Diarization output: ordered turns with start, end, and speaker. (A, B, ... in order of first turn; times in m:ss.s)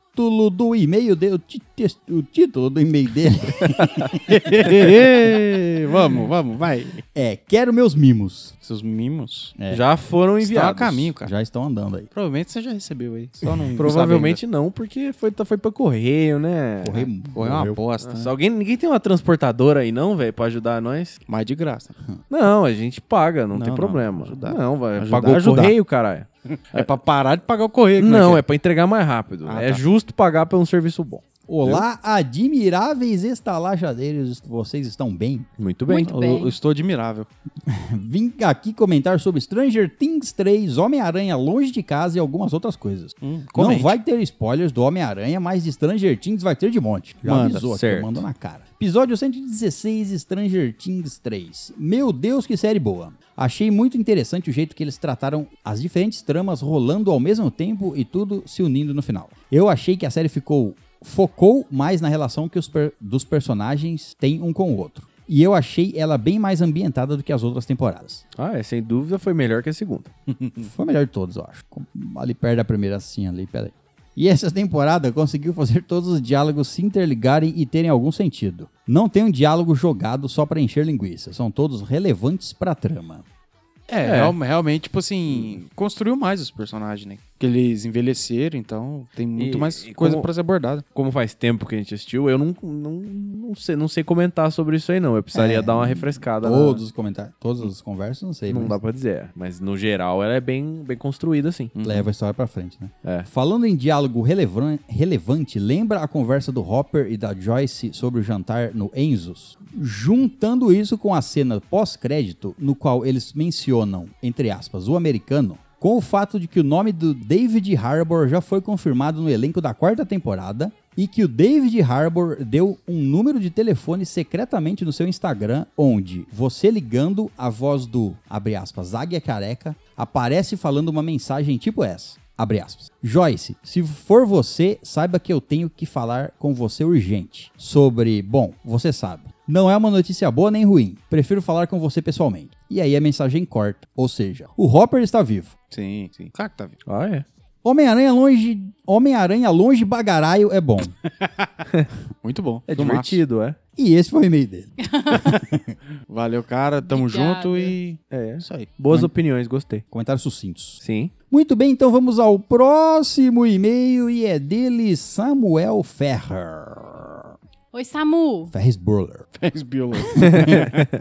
0:00.2-0:04.8 A
0:04.3-0:07.0 B
0:07.2-0:08.5 A
0:08.6-0:09.6 B
0:09.6-0:09.8 A
0:09.7-0:11.1 C
0:10.4-0:11.3 B
0:11.2-0:12.1 A
0:12.1-0:14.4 B
0:13.5-0:13.8 A
0:13.8-0:17.1 C
0:16.8-0:17.8 A
0:17.3-0:18.3 B
0:18.0-0:21.2 C
0:21.3-0:22.0 B
0:22.3-0:26.9 C
0:23.5-0:24.2 A
0:24.2-0:25.7 B
0:26.7-0:28.4 B
0:28.0-0:31.8 C
0:29.5-0:29.8 B
0:31.5-0:35.5 A
0:35.6-0:36.2 C
0:35.9-0:36.6 D
0:36.0-0:37.3 B
0:37.7-1:08.2 A
0:43.2-0:43.9 B
0:47.2-0:47.6 B
0:47.4-0:48.2 C
1:08.4-1:10.1 C
1:10.6-1:23.2 A
1:23.9-1:30.8 B
1:24.0-1:24.4 C
1:25.3-1:25.6 C
1:29.4-1:30.3 C
1:30.9-1:36.8 C
1:35.3-1:38.8 A
1:38.5-1:41.7 C
1:41.7-1:42.1 B
1:41.8-2:25.5 A
2:25.7-2:26.8 B
2:26.9-2:27.2 C
2:27.6-2:30.9 A
2:31.2-2:31.5 B
2:32.2-2:33.2 B
2:32.7-2:33.6 C
2:33.8-2:35.8 A
2:34.8-2:35.4 D
2:36.1-2:38.7 B
2:36.8-2:37.7 D
2:38.1-2:39.8 C
2:39.9-2:47.2 A
2:40.8-2:41.1 C
2:47.7-2:48.5 D
2:48.5-2:49.3 A
2:49.4-2:50.9 B
2:50.2-2:50.5 A
2:50.2-2:50.8 C